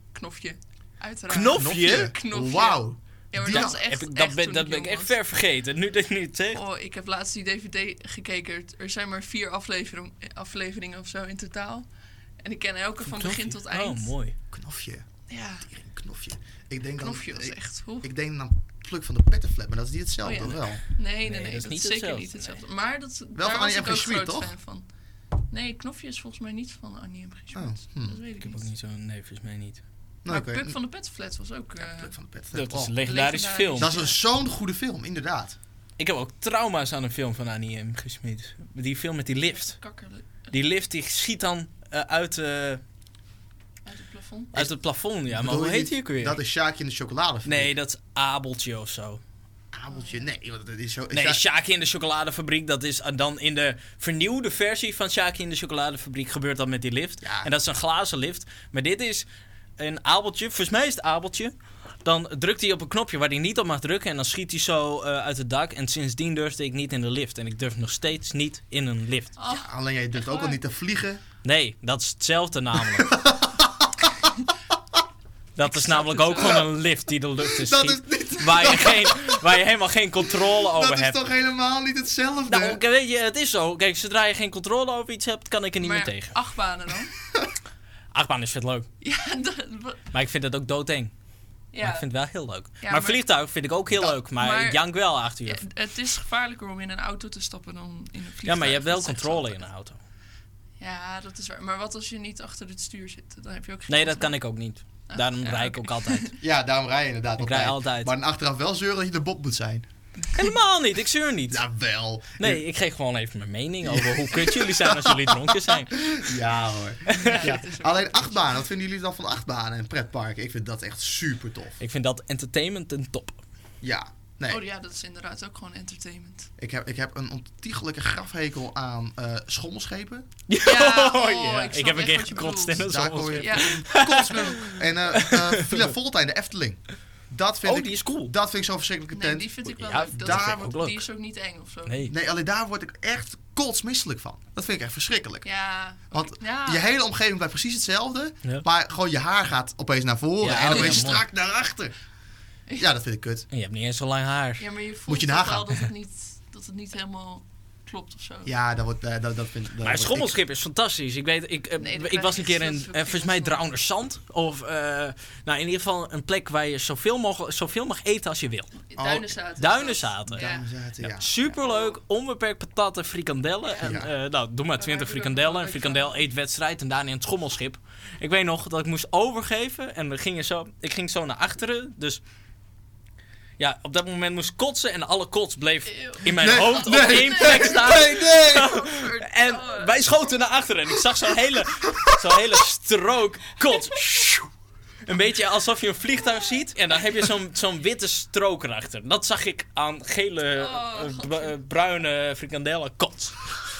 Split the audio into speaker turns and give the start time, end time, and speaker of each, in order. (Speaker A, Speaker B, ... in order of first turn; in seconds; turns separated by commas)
Speaker A: 0.1-5.2, Speaker B: 1.3-2.1, Speaker C: 1.5-3.7, Speaker B: 3.5-6.6, Speaker A: 6.5-11.9, Speaker A: 12.4-14.1, Speaker B: 13.0-14.3, Speaker C: 14.5-15.1, Speaker A: 15.3-15.7, Speaker C: 15.7-20.8, Speaker A: 17.0-18.1, Speaker A: 20.2-24.9, Speaker B: 21.2-22.6, Speaker C: 23.4-24.5, Speaker A: 25.5-28.6, Speaker C: 27.5-28.2, Speaker B: 28.4-29.8, Speaker C: 30.2-30.8, Speaker A: 30.3-32.1, Speaker C: 31.8-32.9, Speaker B: 32.5-33.9, Speaker A: 33.0-34.2, Speaker C: 33.8-35.6, Speaker B: 36.0-39.8, Speaker A: 39.4-40.5, Speaker B: 40.5-42.8, Speaker A: 43.9-44.5, Speaker B: 44.5-46.4, Speaker C: 45.3-47.7, Speaker B: 47.4-49.2, Speaker C: 49.7-51.4, Speaker A: 49.9-50.2, Speaker B: 51.1-59.3, Speaker C: 57.2-57.5, Speaker B: 59.8-69.3, Speaker A: 69.4-70.6, Speaker C: 69.5-71.2, Speaker B: 71.4-73.1, Speaker C: 73.0-74.2, Speaker B: 75.6-81.2, Speaker A: 75.6-76.6, Speaker C: 77.4-79.4, Speaker C: 80.4-82.8, Speaker B: 82.5-86.3, Speaker A: 85.8-87.2, Speaker B: 88.1-88.9, Speaker A: 89.0-90.0, Speaker B: 90.1-91.1, Speaker A: 91.7-92.1, Speaker B: 91.8-95.6, Speaker A: 92.8-93.2, Speaker A: 94.0-94.8, Speaker A: 95.4-99.6, Speaker B: 98.4-100.0, Speaker A: 100.8-104.3, Speaker B: 103.9-106.3, Speaker A: 105.1-106.4, Speaker C: 106.4-109.9, Speaker B: 107.4-108.1, Speaker B: 110.3-111.6, Speaker C: 111.5-112.6, Speaker B: 112.4-116.1, Speaker C: 113.8-121.8, Speaker B: 117.1-117.5, Speaker A: 117.1-118.5, Speaker B: 121.8-123.4, Speaker C: 123.8-124.6, Speaker A: 124.5-126.5, Speaker C: 126.6-130.3, Speaker B: 130.5-135.9, Speaker A: 130.6-134.6, Speaker C: 132.8-139.5, Speaker B: 137.6-138.3, Speaker A: 139.1-142.0, Speaker B: 139.8-141.1, Speaker C: 140.1-140.6, Speaker B: 141.9-142.1, Speaker C: 142.1-145.4, Speaker A: 145.4-146.8, Speaker C: 146.1-151.9, Speaker B: 150.4-151.2, Speaker C: 152.8-153.4, Speaker B: 153.5-154.6, Speaker A: 154.6-158.5, Speaker C: 155.1-155.7, Speaker C: 158.4-160.4, Speaker B: 159.8-170.5, Speaker A: 161.8-163.6, Speaker A: 168.9-170.7, Speaker C: 170.3-171.3, Speaker B: 171.0-182.2, Speaker A: 171.4-171.9, Speaker A: 173.7-174.0, Speaker C: 173.8-174.1, Speaker A: 174.8-176.2, Speaker B: 183.6-194.5, Speaker A: 185.9-190.0, Speaker C: 186.3-188.7, Speaker B: 195.1-203.6, Speaker A: 200.6-201.6